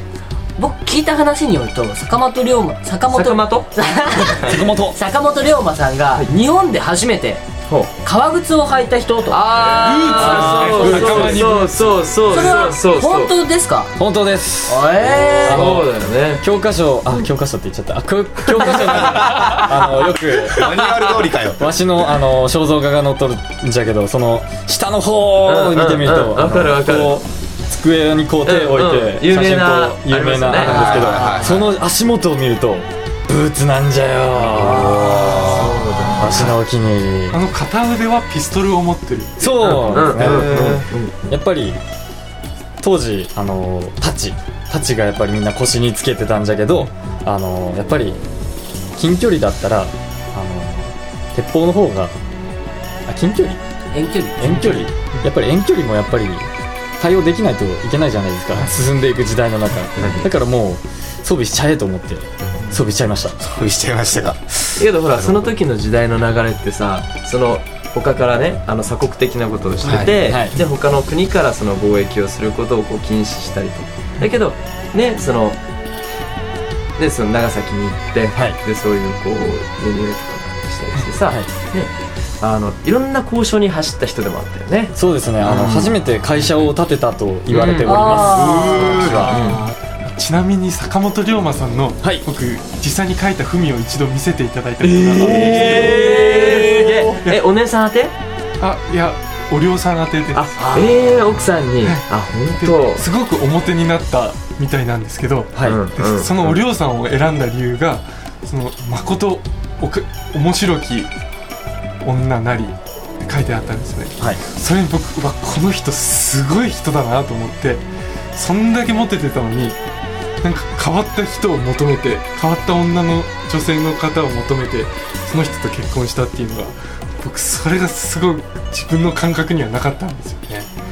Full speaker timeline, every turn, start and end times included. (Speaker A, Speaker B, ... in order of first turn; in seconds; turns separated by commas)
Speaker A: 0.6-7.4, Speaker B: 3.1-3.7, Speaker C: 4.4-5.0, Speaker B: 7.7-7.9, Speaker A: 8.0-9.5, Speaker B: 9.3-13.3, Speaker D: 9.6-12.5, Speaker C: 10.1-11.4, Speaker A: 12.2-13.9, Speaker C: 14.0-20.7, Speaker A: 14.7-15.7, Speaker B: 15.2-16.4, Speaker E: 19.0-19.6, Speaker E: 20.5-21.7, Speaker B: 20.8-21.1, Speaker C: 21.6-37.4, Speaker B: 25.4-27.2, Speaker B: 28.4-30.9, Speaker A: 30.6-31.7, Speaker E: 30.7-31.7, Speaker A: 34.7-36.4, Speaker E: 35.2-36.5, Speaker B: 36.0-36.5, Speaker D: 37.3-40.0, Speaker C: 39.4-40.7, Speaker B: 39.6-41.4, Speaker E: 40.1-40.9, Speaker C: 41.3-41.8, Speaker C: 42.8-48.2, Speaker C: 49.0-52.1, Speaker C: 53.1-53.6, Speaker A: 53.9-54.6, Speaker C: 54.4-56.5, Speaker C: 57.0-63.4, Speaker B: 60.0-60.3, Speaker E: 62.4-62.8, Speaker E: 63.4-65.5, Speaker B: 64.8-75.6, Speaker E: 69.8-70.2, Speaker C: 70.0-70.5, Speaker B: 77.0-86.0, Speaker C: 84.9-89.5, Speaker B: 87.5-89.6, Speaker A: 87.8-89.8, Speaker E: 88.5-89.0, Speaker D: 90.1-96.0, Speaker B: 94.8-98.1, Speaker C: 95.2-96.7, Speaker A: 95.5-97.0, Speaker D: 98.6-100.5, Speaker B: 100.3-103.0, Speaker A: 100.6-101.4, Speaker D: 101.8-102.0, Speaker D: 102.5-111.1, Speaker C: 105.5-105.8, Speaker B: 105.6-106.6, Speaker D: 112.0-117.8, Speaker D: 118.3-119.8, Speaker D: 120.4-130.7